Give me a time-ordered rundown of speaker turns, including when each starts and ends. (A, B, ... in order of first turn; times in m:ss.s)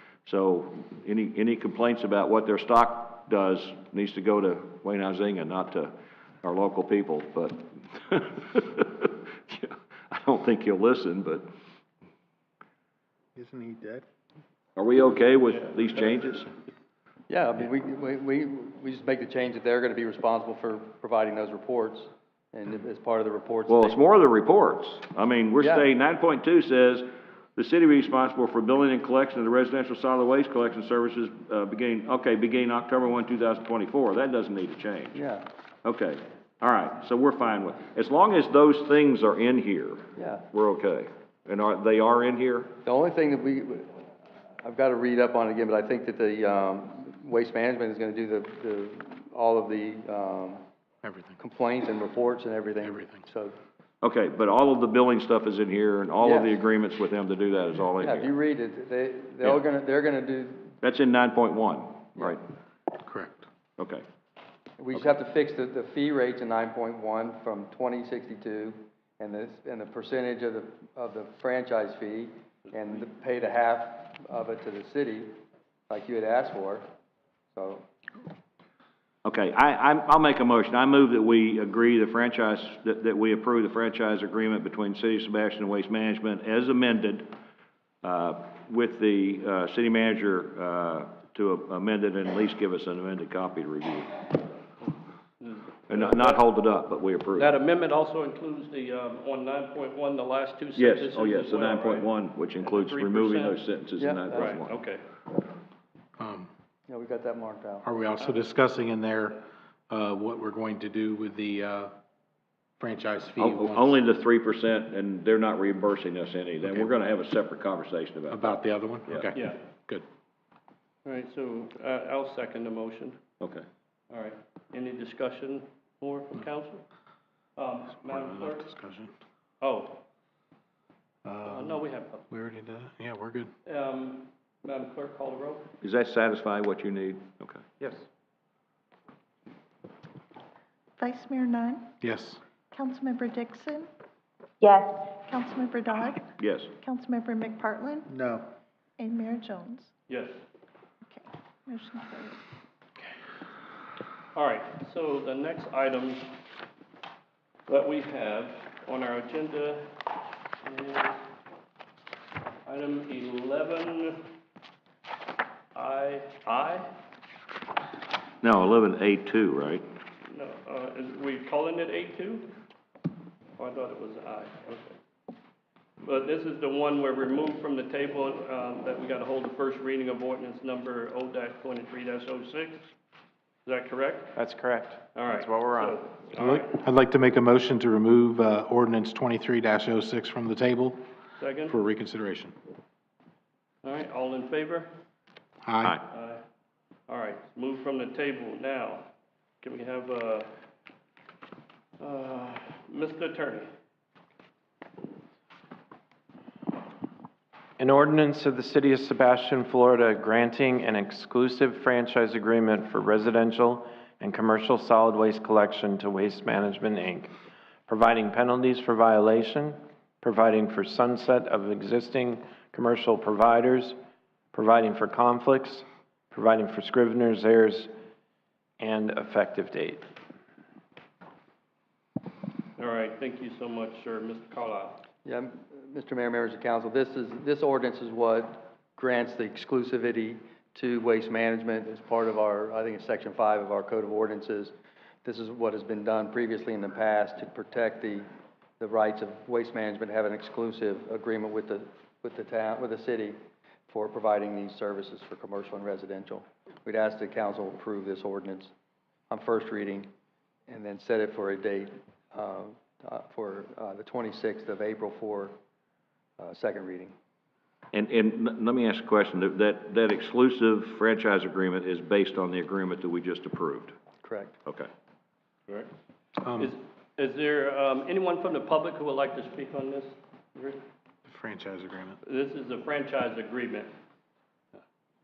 0:00.2-0:11.5 A
0:13.4-0:14.0 B
0:14.8-0:16.5 A
0:17.3-0:24.0 C
0:23.7-0:35.2 A
0:25.6-0:25.9 C
0:35.1-0:35.4 C
0:35.8-0:42.7 A
0:40.2-0:40.4 C
0:42.8-0:44.0 C
0:44.6-0:50.6 C
0:51.0-0:51.4 B
0:51.4-0:53.5 C
0:52.8-0:53.2 B
0:54.0-0:58.3 A
0:56.2-0:56.6 C
0:58.0-1:00.7 C
1:00.8-1:02.4 A
1:03.0-1:03.4 B
1:03.8-1:04.0 A
1:04.8-1:15.3 C
1:15.9-1:16.8 C
1:17.5-1:17.8 C
1:19.2-1:27.3 A
1:28.0-1:34.1 A
1:35.4-1:36.4 D
1:35.9-1:37.5 A
1:37.4-1:42.1 D
1:40.8-1:44.8 A
1:42.6-1:43.6 D
1:44.0-1:44.5 C
1:44.3-1:45.0 D
1:46.2-1:46.5 B
1:46.9-1:47.9 C
1:47.8-1:51.9 B
1:52.8-1:54.0 B
1:53.4-1:58.4 A
1:56.6-1:56.9 B
1:58.3-2:00.0 B
1:59.3-1:59.6 D
2:01.0-2:03.2 D
2:03.4-2:03.6 A
2:04.1-2:06.8 D
2:07.6-2:08.7 D
2:08.0-2:09.1 B
2:09.6-2:10.0 D
2:11.2-2:13.5 B
2:11.5-2:12.2 D
2:13.6-2:15.6 D
2:15.8-2:17.6 A
2:21.0-2:21.9 E
2:22.0-2:22.4 B
2:22.7-2:23.9 E
2:25.1-2:28.1 E
2:26.4-2:26.7 A
2:29.0-2:29.9 E
2:30.1-2:30.4 D
2:31.1-2:32.4 E
2:34.3-2:36.3 D
2:37.7-2:39.9 D
2:40.6-2:41.2 D
2:42.6-2:44.2 D
2:45.7-2:46.9 D
2:48.4-2:49.8 A
2:50.3-2:52.5 D
2:53.6-2:55.0 D
2:56.0-3:02.9 D
3:03.6-3:04.3 D
3:04.3-3:06.0 F
3:05.1-3:06.8 D
3:06.4-3:11.0 B
3:11.4-3:11.8 D
3:11.6-3:12.5 B
3:13.8-3:14.9 D
3:15.6-3:16.0 B
3:16.1-3:16.4 D
3:17.1-3:19.1 D
3:19.6-3:20.5 D
3:22.0-3:23.6 D
3:27.8-3:37.3 F
3:37.9-3:44.0 F
3:44.5-3:47.9 F
3:48.8-3:50.0 F
3:52.8-3:55.0 D
3:55.2-4:04.7 C
4:05.2-4:08.2 C
4:08.8-4:13.4 C
4:13.9-4:18.7 C
4:19.3-4:20.1 C
4:20.7-4:25.5 C
4:26.4-4:27.1 C
4:27.9-4:33.9 A
4:34.2-4:34.6 C
4:36.4-4:36.7 B
4:36.6-4:40.8 D
4:41.2-4:42.2 B
4:42.2-4:43.9 D